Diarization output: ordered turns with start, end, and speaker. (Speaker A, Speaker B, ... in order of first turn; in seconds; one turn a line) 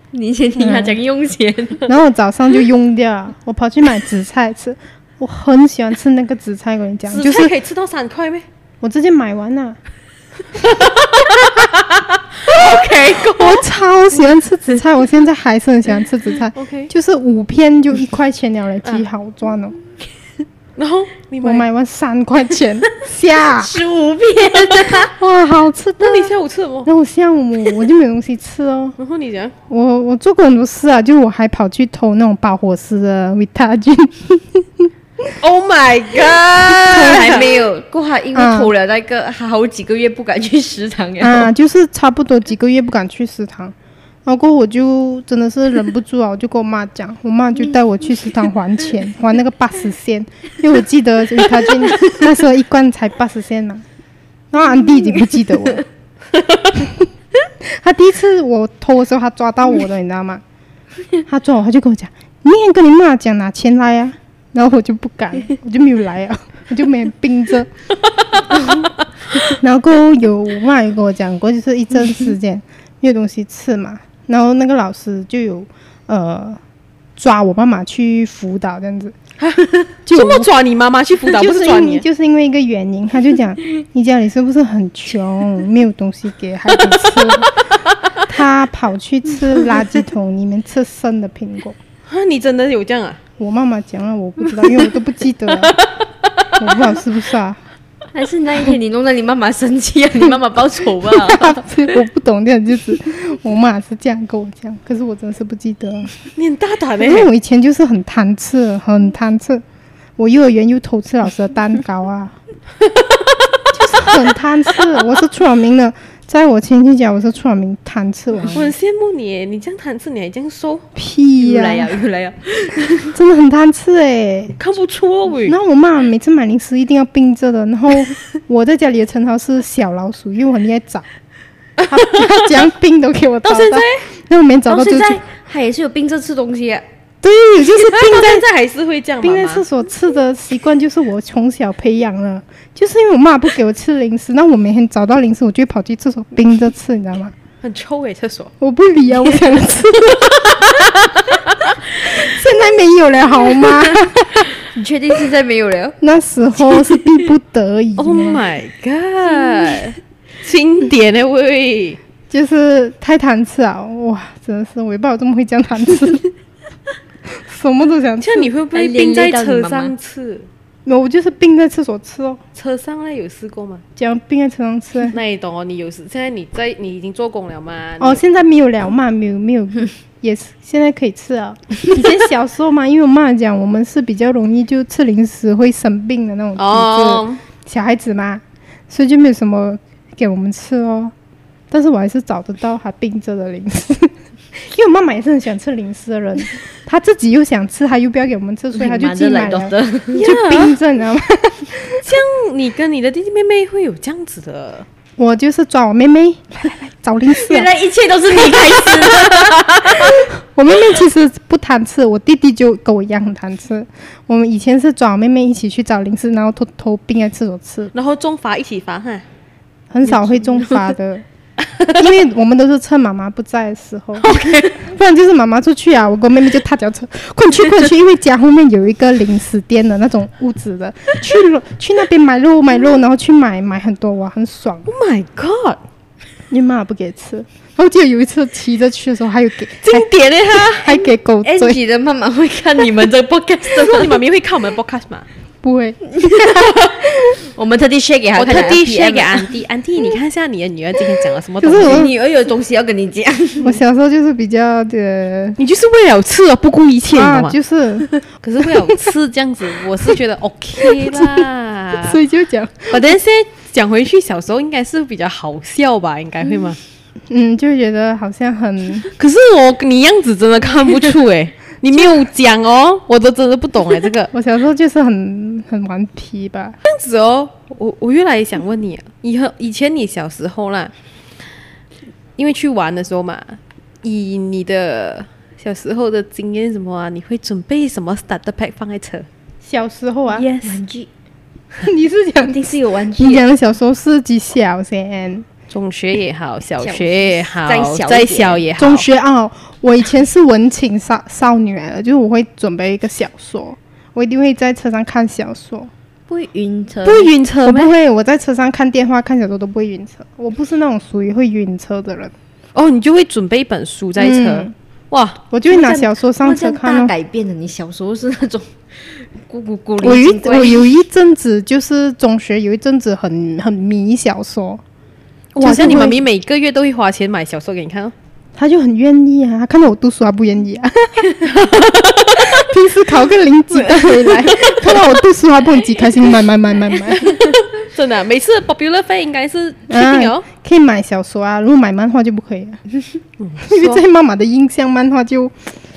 Speaker A: 0.1-1.8
Speaker B: 0.6-1.0
Speaker B: 1.9-7.5
Speaker C: 7.1-8.4
Speaker B: 8.8-9.8
Speaker C: 10.7-13.6
Speaker A: 12.5-13.3
Speaker B: 13.3-19.8
Speaker C: 16.5-16.9
Speaker C: 20.8-21.6
Speaker B: 21.4-23.7
Speaker A: 23.5-25.1
Speaker C: 24.5-24.9
Speaker B: 25.1-28.9
Speaker C: 26.0-26.9
Speaker C: 29.0-29.5
Speaker B: 29.7-34.9
Speaker C: 35.4-37.6
Speaker A: 36.8-41.5
Speaker B: 36.9-37.4
Speaker B: 38.3-38.7
Speaker B: 41.2-53.8
Speaker B: 54.5-55.8
Speaker B: 56.8-57.1
Speaker B: 57.6-60.4
Speaker B: 61.3-67.7
Speaker B: 68.5-76.6
Speaker B: 77.2-79.2
Speaker C: 79.4-82.0
Speaker B: 80.1-80.5
Speaker B: 81.2-87.5
Speaker B: 88.3-91.8
Speaker C: 92.1-93.2
Speaker B: 93.4-95.8
Speaker C: 95.5-96.5
Speaker B: 96.6-97.6
Speaker A: 98.1-101.7
Speaker B: 101.0-106.1
Speaker C: 106.3-107.3
Speaker B: 107.0-109.6
Speaker B: 110.2-112.3
Speaker C: 112.8-113.7
Speaker B: 113.7-118.7
Speaker C: 118.5-120.8
Speaker B: 120.9-122.0
Speaker A: 121.4-123.1
Speaker B: 123.1-124.5
Speaker C: 124.6-125.5
Speaker B: 125.5-131.0
Speaker C: 131.8-132.6
Speaker B: 131.9-135.2
Speaker C: 133.4-134.0
Speaker A: 134.7-136.8
Speaker B: 137.2-138.4
Speaker C: 137.7-139.6
Speaker B: 139.2-147.3
Speaker C: 147.6-148.5
Speaker B: 148.6-150.9
Speaker C: 150.1-152.2
Speaker B: 152.0-154.5
Speaker A: 154.6-155.9
Speaker B: 156.0-158.4
Speaker C: 158.0-162.0
Speaker B: 162.3-166.2
Speaker B: 167.3-168.5
Speaker C: 168.2-170.5
Speaker A: 168.7-169.9
Speaker B: 170.8-172.4
Speaker C: 172.5-173.8
Speaker B: 173.9-175.2
Speaker C: 175.1-178.2
Speaker B: 178.0-191.1
Speaker C: 186.6-187.4
Speaker B: 191.7-202.0
Speaker A: 198.7-200.2
Speaker C: 200.1-200.7
Speaker C: 202.0-204.9
Speaker B: 205.2-207.7
Speaker A: 207.3-210.1
Speaker C: 208.5-209.9
Speaker B: 210.1-217.9
Speaker C: 217.9-219.2
Speaker B: 219.9-221.2
Speaker A: 220.2-220.8
Speaker C: 221.6-222.0
Speaker B: 222.0-234.9
Speaker C: 224.2-224.8
Speaker C: 234.9-235.8
Speaker B: 236.5-241.8
Speaker C: 239.8-241.0
Speaker A: 241.4-244.2
Speaker C: 243.7-245.3
Speaker B: 245.6-247.0
Speaker A: 246.2-249.5
Speaker C: 248.3-252.1
Speaker B: 251.6-252.1
Speaker A: 251.7-253.7
Speaker B: 253.6-255.6
Speaker C: 255.6-257.6
Speaker B: 257.1-258.1
Speaker C: 258.4-262.2
Speaker B: 260.8-263.1
Speaker C: 262.9-266.8
Speaker B: 267.3-269.1
Speaker C: 269.1-274.3
Speaker B: 274.3-276.8
Speaker C: 276.8-280.9
Speaker C: 282.4-289.3
Speaker B: 289.6-290.5
Speaker C: 290.3-290.8
Speaker A: 290.6-291.1
Speaker B: 291.8-295.4
Speaker A: 292.4-293.4
Speaker C: 295.7-299.1
Speaker A: 296.8-298.6
Speaker B: 298.8-305.9
Speaker A: 306.3-307.3
Speaker C: 307.0-307.9
Speaker B: 307.6-312.3
Speaker C: 312.7-315.4
Speaker B: 314.2-314.7
Speaker B: 315.5-317.1
Speaker A: 315.7-320.8
Speaker B: 320.0-324.8
Speaker C: 325.5-328.1
Speaker B: 325.6-326.2
Speaker B: 328.6-331.3
Speaker C: 331.4-332.7
Speaker B: 332.4-337.4
Speaker C: 334.5-334.9
Speaker C: 337.2-340.4
Speaker B: 339.9-342.8
Speaker C: 343.4-344.0
Speaker B: 343.6-345.5